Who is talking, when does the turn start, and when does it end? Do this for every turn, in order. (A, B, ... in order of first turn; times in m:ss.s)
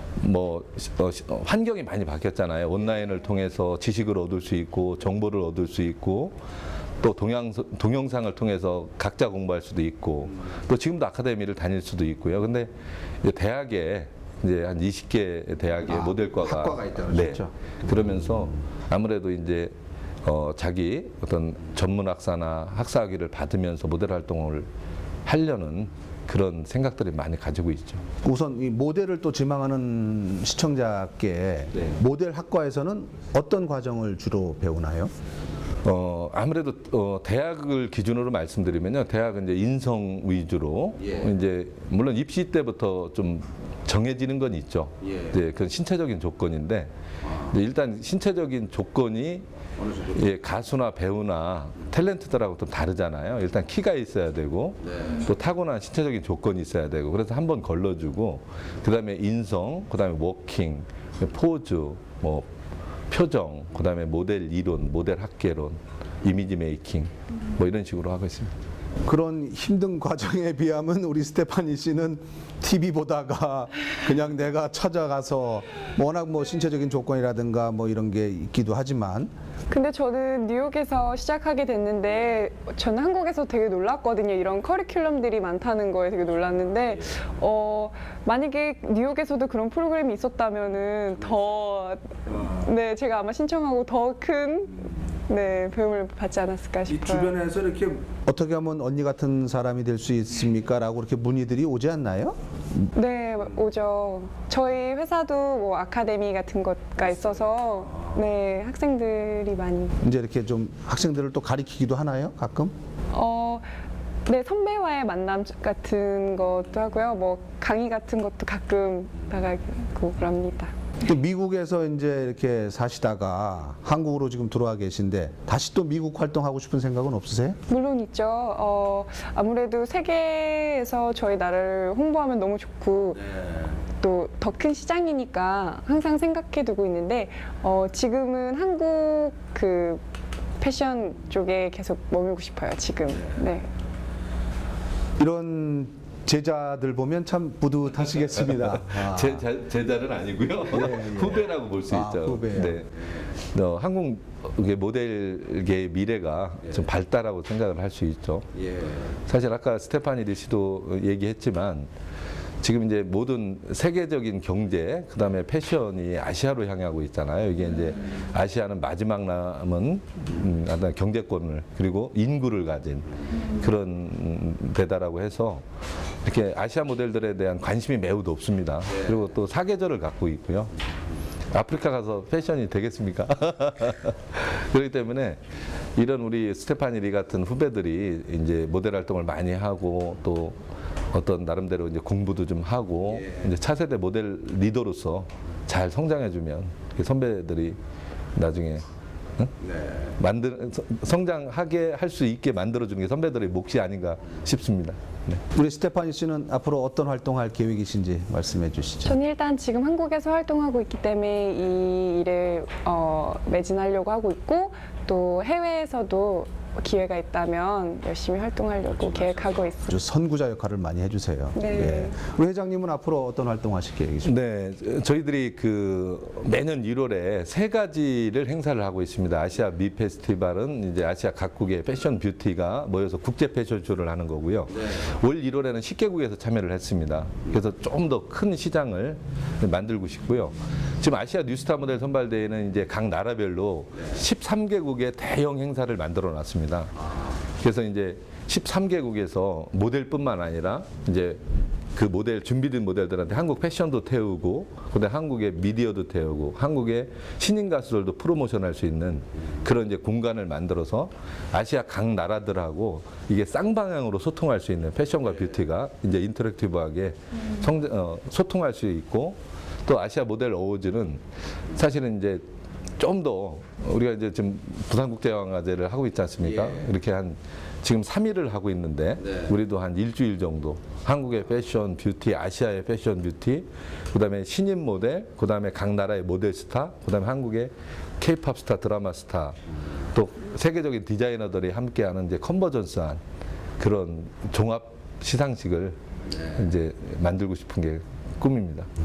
0:00.2-0:06.4 A
0:07.0-0:12.7 A
0:13.2-0:24.7 A
0:15.9-0:17.5 B
0:25.2-0:28.0 A
0:28.2-0:35.1 B
0:35.8-0:49.4 A
0:50.0-1:02.5 A
1:03.1-1:08.5 A
1:09.0-1:19.3 B
1:19.7-1:37.4 C
1:36.9-1:42.9 B
1:42.9-1:50.0 C
1:50.0-1:52.7 B
1:53.1-1:53.7 C
1:54.2-2:00.7 C
2:01.0-2:07.6 B
2:07.7-2:13.4 C
2:14.0-2:20.0 C
2:20.6-2:23.7 C
2:25.2-2:29.4 B
2:28.9-2:41.9 A
2:30.7-2:32.8 B
2:42.6-2:55.6 A
2:56.2-3:00.7 A
3:01.5-3:05.4 A
3:06.0-3:17.8 A
3:18.3-3:18.8 A
3:19.4-3:25.4 A
3:25.5-3:29.2 B
3:29.0-3:40.0 C
3:39.9-3:44.3 B
3:41.5-3:42.2 C
3:44.2-4:11.4 A
4:11.9-4:32.4 A
4:33.0-4:49.6 A
4:50.1-4:53.2 A
4:53.8-4:58.9 A